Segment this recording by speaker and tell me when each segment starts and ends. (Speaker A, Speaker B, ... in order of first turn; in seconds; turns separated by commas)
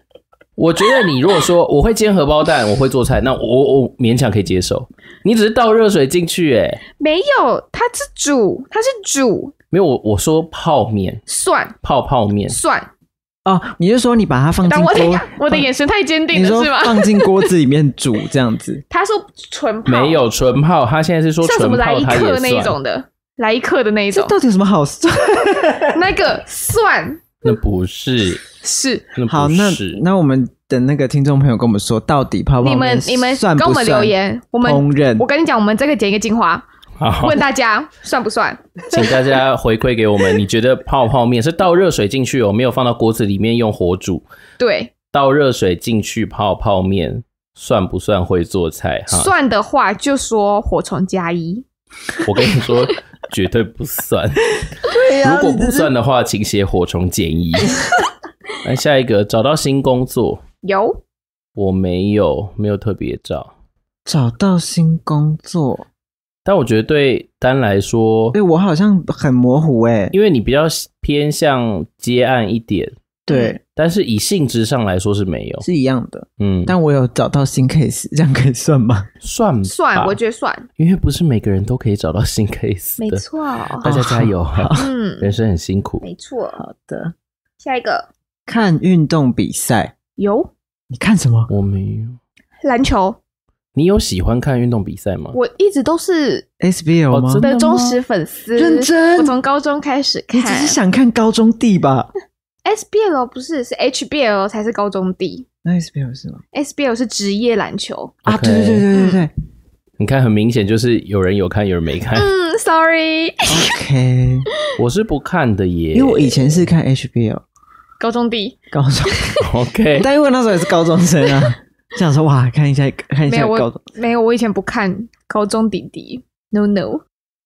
Speaker A: 0.6-6.8, Speaker B: 7.0-9.5, Speaker A: 9.7-11.2, Speaker B: 11.3-11.8, Speaker A: 11.8-12.6, Speaker B: 12.5-12.9, Speaker C: 13.5-15.7, Speaker B: 14.7-17.5, Speaker C: 16.3-18.8, Speaker B: 18.9-20.2, Speaker A: 19.9-22.8, Speaker B: 21.4-24.4, Speaker C: 24.1-26.1, Speaker B: 25.9-27.4, Speaker A: 27.4-28.4, Speaker B: 28.5-29.1, Speaker A: 29.1-30.0, Speaker C: 29.3-35.3, Speaker B: 32.6-36.6, Speaker A: 37.0-37.4, Speaker B: 37.2-39.4, Speaker A: 38.9-44.2, Speaker B: 44.6-44.9, Speaker A: 45.1-49.3, Speaker B: 49.1-51.6, Speaker A: 52.2-54.4, Speaker C: 54.8-55.9, Speaker A: 55.2-57.8, Speaker A: 58.6-60.4, Speaker B: 60.6-61.0, Speaker A: 61.6-63.5, Speaker C: 64.1-65.8, Speaker A: 66.5-68.4, Speaker C: 68.3-70.1, Speaker A: 70.1-73.0, Speaker C: 73.3-73.6, Speaker B: 73.3-73.6, Speaker A: 73.8-75.7, Speaker C: 75.6-79.1, Speaker A: 76.4-76.8, Speaker A: 79.2-80.2, Speaker B: 79.7-80.7, Speaker A: 80.8-83.2, Speaker B: 83.0-83.9, Speaker A: 83.8-86.1, Speaker C: 83.8-84.9, Speaker B: 84.8-85.3, Speaker B: 86.0-86.6, Speaker C: 86.6-87.1, Speaker B: 87.6-88.1, Speaker C: 88.5-89.9, Speaker B: 90.2-90.5, Speaker C: 90.9-91.5, Speaker A: 91.5-92.2, Speaker B: 92.6-93.2, Speaker A: 93.8-95.4, Speaker B: 95.3-96.5, Speaker C: 96.6-97.4, Speaker A: 97.1-98.0, Speaker B: 97.4-100.8, Speaker C: 98.6-99.3, Speaker C: 100.3-102.1, Speaker B: 102.7-105.5, Speaker C: 105.7-106.4, Speaker B: 106.5-108.2, Speaker A: 108.3-108.9, Speaker C: 108.3-109.3, Speaker B: 108.9-109.2, Speaker A: 110.0-112.3, Speaker B: 112.2-113.7, Speaker C: 113.5-114.5, Speaker A: 114.8-116.7, Speaker C: 115.9-117.4, Speaker B: 118.0-118.6, Speaker C: 118.7-119.4, Speaker A: 119.4-120.1, Speaker C: 120.0-123.8, Speaker B: 123.3-127.0